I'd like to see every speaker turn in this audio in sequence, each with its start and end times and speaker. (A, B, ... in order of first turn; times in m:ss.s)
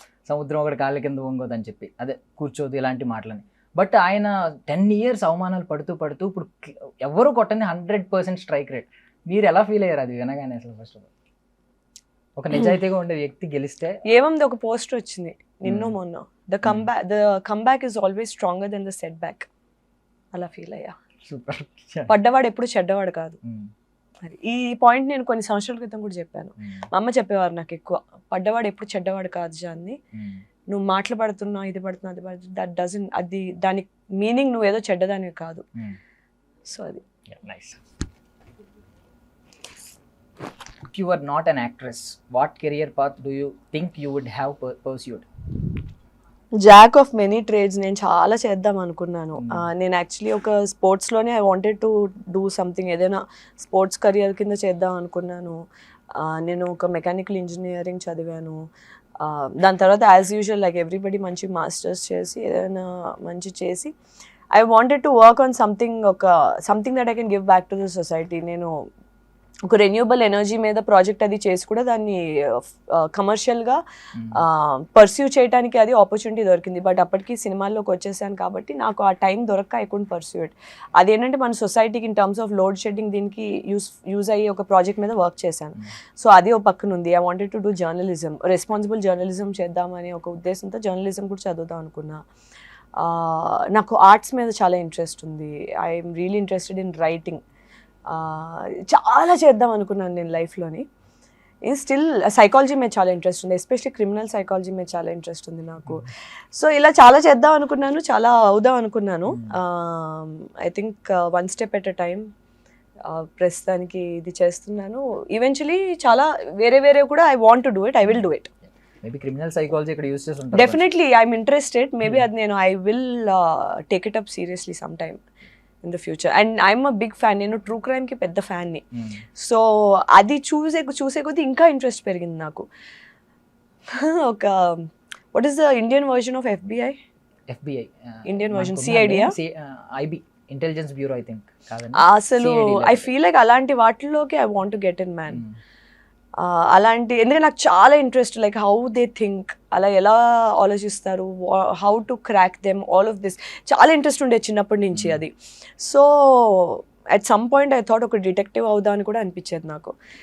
0:00.3-0:11.1 A
0:12.4-0:14.0 A
0:14.1-0:19.5 B
0:15.6-0:15.9 A
0:20.3-0:21.0 B
0:21.2-0:22.1 A
0:22.1-0:23.4 B
0:23.4-0:23.7 A
0:24.2-0:30.0 B
0:26.6-0:26.9 A
0:30.1-0:30.4 A
0:30.7-0:35.6 B
0:36.6-0:37.0 B
0:37.3-0:37.8 A
0:40.9-0:45.2 A
0:46.6-0:55.6 B
0:49.4-0:49.7 A
0:56.1-0:58.7 B
0:59.2-1:03.9 B
1:04.5-1:08.8 B
1:09.7-1:13.8 B
1:14.1-1:14.4 A
1:14.3-1:32.2 B
1:33.0-1:37.4 B
1:38.1-1:40.8 B
1:41.6-1:52.3 B
1:45.8-1:46.1 A
1:49.3-1:49.5 A
1:53.0-1:58.5 B
1:59.0-2:00.8 A
2:00.5-2:05.2 B
2:05.8-2:08.8 B
2:09.4-2:12.7 B
2:13.9-2:17.0 B
2:17.5-2:23.1 A
2:18.2-2:19.3 B
2:21.9-2:25.4 B
2:25.3-2:25.6 A
2:26.4-2:39.9 B
2:34.9-2:35.2 A